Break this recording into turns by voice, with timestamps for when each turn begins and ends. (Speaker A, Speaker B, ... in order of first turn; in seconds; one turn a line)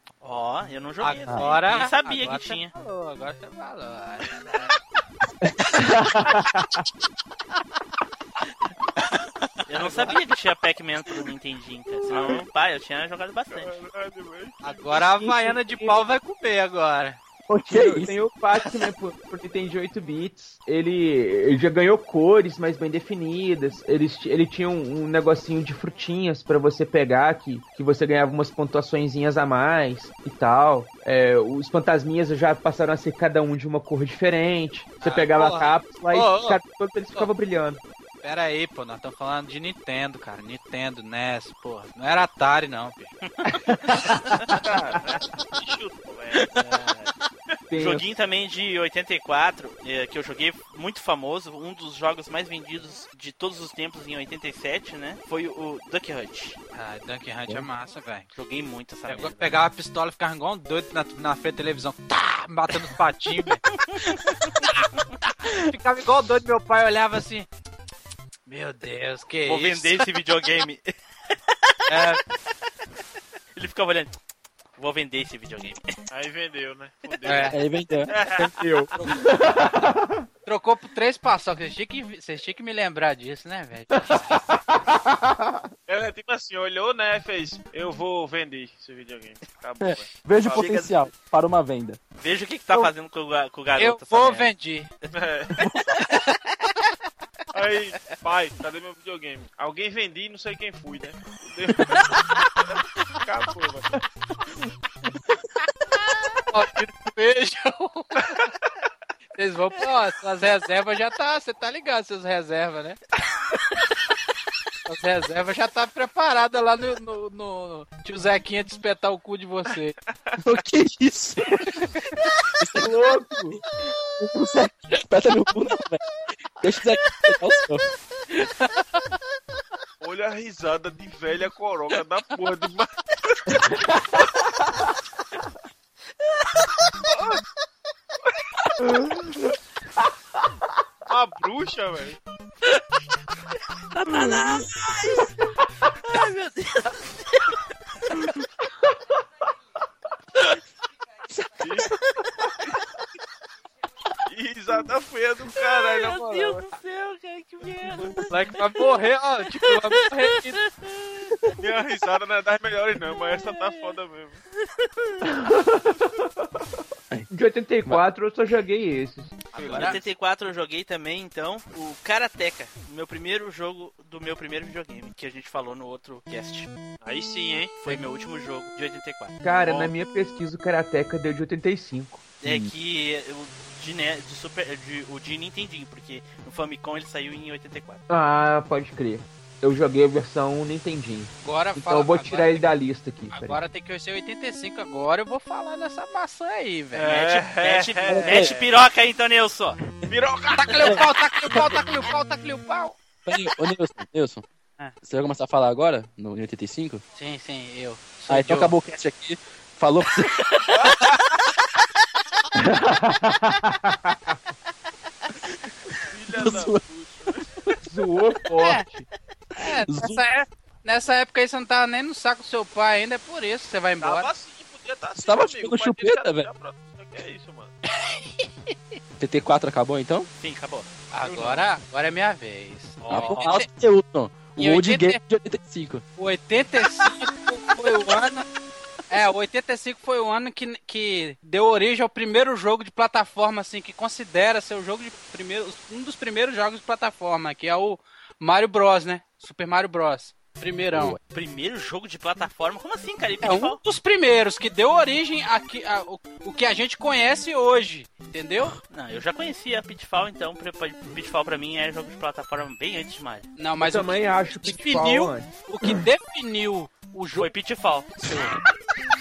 Speaker A: 0.2-2.7
Speaker B: 1.0-4.7
Speaker C: 5.7-6.9
Speaker A: 9.7-13.8
Speaker B: 9.8-10.1
Speaker D: 13.5-15.0
Speaker B: 14.6-17.2
Speaker C: 15.0-16.0
Speaker E: 17.5-18.2
Speaker C: 17.7-37.8
Speaker B: 35.0-36.6
Speaker B: 38.2-43.1
Speaker C: 43.5-44.6
Speaker D: 44.5-46.5
Speaker A: 46.5-47.1
Speaker C: 47.7-48.1
Speaker A: 47.7-56.6
Speaker B: 56.7-58.3
Speaker A: 58.3-59.6
Speaker B: 59.0-63.6
Speaker A: 63.9-64.6
Speaker B: 65.5-67.5
Speaker B: 68.5-70.0
Speaker A: 69.5-70.8
Speaker B: 71.9-72.2
Speaker A: 73.5-74.2
Speaker A: 74.8-75.9
Speaker D: 76.1-77.6
Speaker B: 77.2-77.5
Speaker E: 77.5-78.1
Speaker D: 78.1-78.5
Speaker C: 78.4-80.2
Speaker B: 80.5-84.4
Speaker C: 84.1-85.6
Speaker D: 85.9-90.8
Speaker E: 89.8-92.0
Speaker A: 90.5-91.0
Speaker A: 92.2-94.5
Speaker B: 93.8-94.9
Speaker D: 95.1-95.7
Speaker E: 95.6-95.9
Speaker D: 97.5-102.2
Speaker D: 103.2-103.9
Speaker B: 106.5-108.3
Speaker B: 109.4-113.0
Speaker B: 114.9-120.0
Speaker E: 120.4-121.6
Speaker E: 122.6-123.0
Speaker C: 122.8-123.6
Speaker E: 124.2-126.0
Speaker E: 126.5-127.8
Speaker D: 130.0-132.9
Speaker C: 133.6-134.2
Speaker D: 137.1-137.4
Speaker C: 138.8-139.4
Speaker D: 141.1-142.2
Speaker A: 143.9-145.3
Speaker C: 144.1-144.5
Speaker A: 146.1-147.6
Speaker D: 151.6-151.9
Speaker D: 154.3-156.6
Speaker A: 155.6-158.1
Speaker B: 158.2-160.6
Speaker A: 160.6-161.3
Speaker D: 161.6-164.4
Speaker A: 163.5-163.9
Speaker A: 164.7-165.2
Speaker C: 165.2-166.6
Speaker C: 167.3-169.4
Speaker D: 169.5-170.0
Speaker B: 169.6-170.0
Speaker A: 169.6-176.7
Speaker D: 177.0-177.7
Speaker A: 177.8-179.9
Speaker C: 179.4-182.2
Speaker A: 182.4-188.0
Speaker E: 182.4-182.7
Speaker C: 188.1-193.6
Speaker B: 191.4-192.7
Speaker B: 193.3-197.2
Speaker D: 196.9-198.7
Speaker A: 197.1-199.8
Speaker E: 198.1-198.5
Speaker D: 200.1-201.1
Speaker B: 200.5-203.0
Speaker E: 203.3-204.4
Speaker E: 205.0-207.0
Speaker B: 207.2-208.7
Speaker E: 208.3-210.7
Speaker D: 210.7-211.1
Speaker C: 212.6-214.4
Speaker D: 216.1-217.4
Speaker E: 216.3-216.8
Speaker C: 217.8-219.1
Speaker B: 219.6-224.3
Speaker E: 219.9-220.2
Speaker D: 224.0-227.7
Speaker E: 225.2-226.5
Speaker B: 228.0-228.4
Speaker E: 229.2-230.3
Speaker A: 230.4-231.6
Speaker B: 231.1-233.7
Speaker A: 233.0-233.6
Speaker E: 233.1-236.0
Speaker B: 234.6-235.2
Speaker B: 236.2-238.4
Speaker B: 239.1-251.2
Speaker E: 250.9-251.2
Speaker A: 251.3-253.8
Speaker B: 253.4-258.8
Speaker A: 258.9-263.5
Speaker B: 263.6-267.5
Speaker C: 263.8-266.0
Speaker A: 267.4-268.1